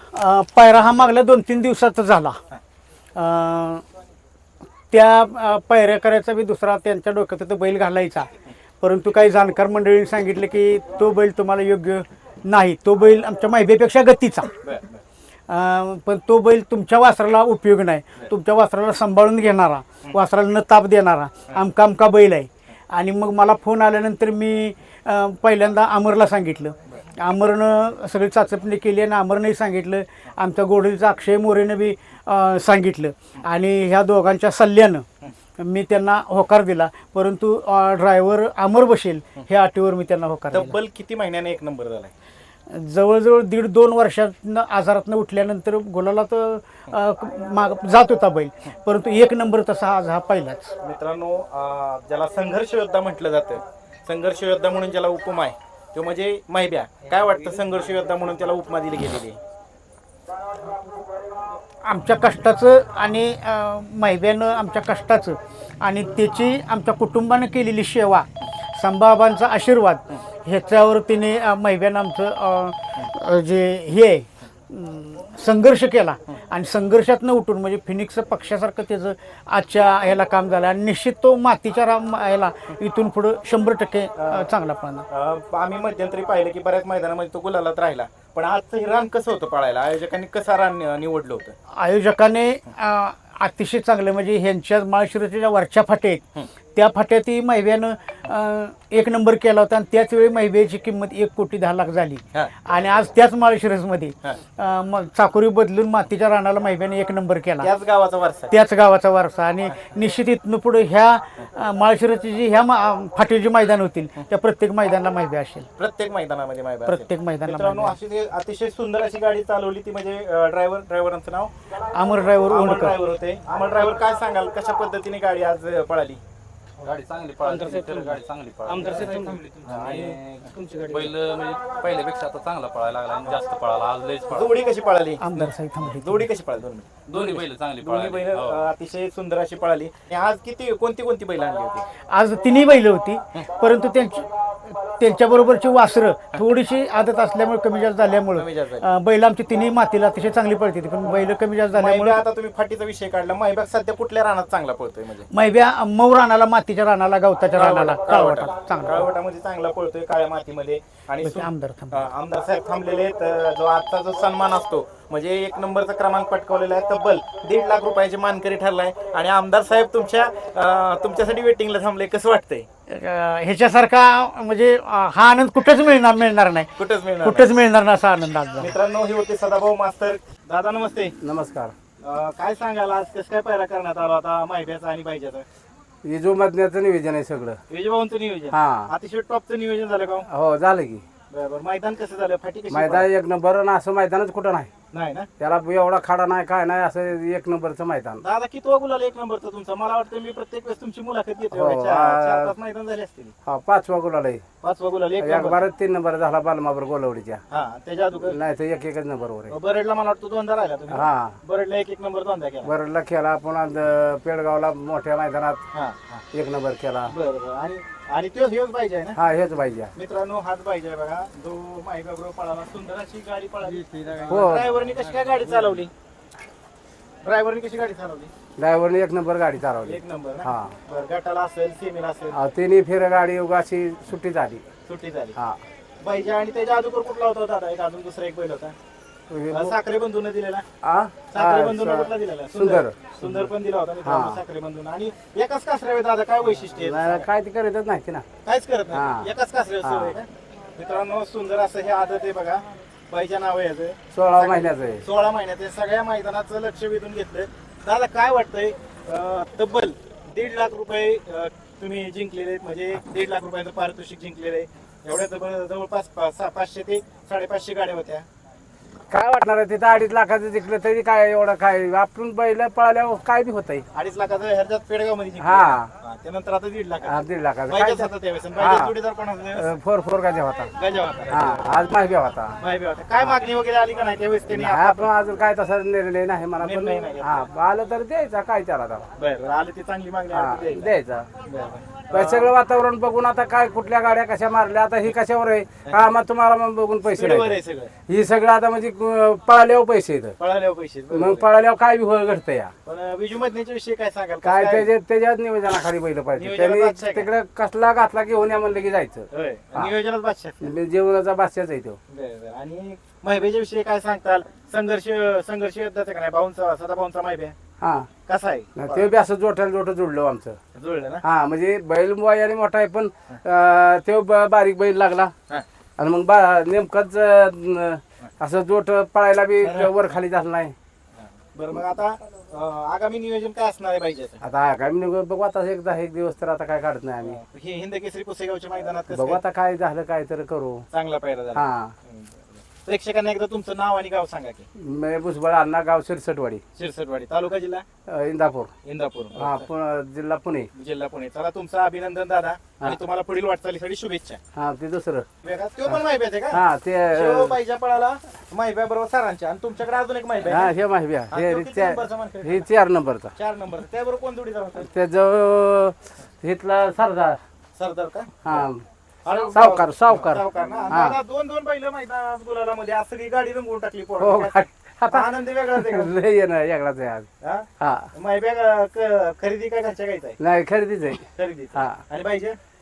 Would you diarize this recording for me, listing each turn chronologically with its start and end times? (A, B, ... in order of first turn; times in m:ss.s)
0:00.1-0:02.4 A
0:03.2-0:03.8 A
0:04.9-0:08.3 A
0:08.8-0:14.5 A
0:14.6-0:15.0 B
0:15.5-0:35.0 A
0:35.6-0:40.7 A
0:40.5-0:42.1 B
0:42.7-0:50.7 A
0:50.8-0:59.4 B
1:01.8-1:25.0 A
1:24.2-1:24.5 B
1:25.1-1:31.5 B
1:31.7-1:47.7 A
1:47.6-1:48.5 B
1:48.5-1:55.6 A
1:55.8-2:01.5 B
1:56.8-1:58.0 A
2:01.9-2:03.0 A
2:02.5-2:06.2 B
2:06.8-2:14.5 C
2:06.8-2:10.0 D
2:08.8-2:10.2 B
2:10.8-2:14.2 D
2:14.3-2:21.8 B
2:15.2-2:16.3 A
2:17.1-2:18.4 D
2:17.1-2:18.6 C
2:22.1-2:32.2 A
2:28.3-2:28.9 B
2:31.7-2:35.3 B
2:35.3-2:39.1 A
2:37.5-2:52.7 B
2:41.2-2:42.1 A
2:52.9-2:58.7 A
2:56.8-2:57.5 B
2:58.6-3:01.2 B
3:01.2-3:01.7 D
3:02.0-3:05.4 B
3:06.0-3:07.6 D
3:07.7-3:10.3 B
3:08.5-3:08.9 D
3:10.3-3:11.0 D
3:11.3-3:13.1 B
3:12.7-3:14.7 D
3:14.9-3:15.3 B
3:15.4-3:18.2 D
3:18.2-3:23.3 B
3:21.5-3:22.5 D
3:23.4-3:24.4 D
3:24.6-3:25.6 B
3:25.2-3:27.4 D
3:27.5-3:28.4 B
3:28.2-3:29.5 D
3:29.5-3:32.7 B
3:30.9-3:31.4 D
3:32.6-3:35.6 D
3:35.7-3:36.2 B
3:36.3-3:37.1 D
3:37.1-3:39.2 B
3:39.2-3:39.9 D
3:39.9-3:45.9 B
3:43.8-3:44.5 C
3:44.3-3:44.7 D
3:47.2-3:48.3 B
3:48.6-3:50.7 D
3:49.8-3:52.4 B
3:52.3-3:54.6 D
3:54.8-3:55.4 B
3:56.0-3:58.7 B
3:59.3-3:59.8 D
3:59.5-4:00.6 B
4:00.8-4:03.5 D
4:01.3-4:07.3 B
4:04.0-4:04.4 D
4:06.6-4:08.2 D
4:08.4-4:28.2 B
4:08.9-4:09.3 D
4:09.8-4:10.2 D
4:14.1-4:15.0 D
4:29.1-4:33.8 D
4:33.9-4:39.7 B
4:35.4-4:35.9 D
4:37.0-4:38.9 D
4:39.5-4:40.7 D
4:40.7-4:41.8 B
4:41.3-4:42.6 D
4:42.6-4:45.1 B
4:44.5-4:49.0 D
4:46.6-4:47.5 B
4:49.2-4:52.5 B
4:50.3-4:51.3 D
4:52.1-4:57.5 D
4:57.0-4:57.9 B
4:58.1-5:00.3 D
5:00.4-5:01.5 B
5:01.1-5:02.7 D
5:02.8-5:04.9 B
5:04.4-5:09.9 D
5:06.4-5:07.3 B
5:09.3-5:10.7 B
5:10.6-5:12.0 D
5:12.1-5:17.5 B
5:17.8-5:18.1 D
5:18.2-5:19.1 B
5:18.8-5:20.6 D
5:20.7-5:21.2 B
5:21.2-5:25.3 D
5:26.0-5:30.7 D
5:29.6-5:30.0 B
5:31.2-5:34.4 B
5:34.4-5:37.4 D
5:37.2-5:39.4 B
5:39.1-5:40.8 D
5:40.9-5:44.7 B
5:41.5-5:41.9 D
5:44.8-5:46.6 D
5:46.7-5:47.8 B
5:48.1-5:48.7 D
5:48.8-5:49.7 B
5:49.4-5:50.7 D
5:50.7-5:54.4 B
5:54.6-5:55.2 D
5:55.4-6:00.7 B
5:56.5-5:57.6 D
6:00.4-6:03.3 D
6:01.3-6:02.7 B
6:03.3-6:04.9 B
6:04.8-6:07.4 D
6:07.8-6:08.6 B
6:08.4-6:11.2 D
6:09.2-6:16.1 B
6:14.2-6:17.3 D
6:17.4-6:20.4 B
6:17.8-6:18.1 D
6:20.4-6:22.0 D
6:21.2-6:22.6 B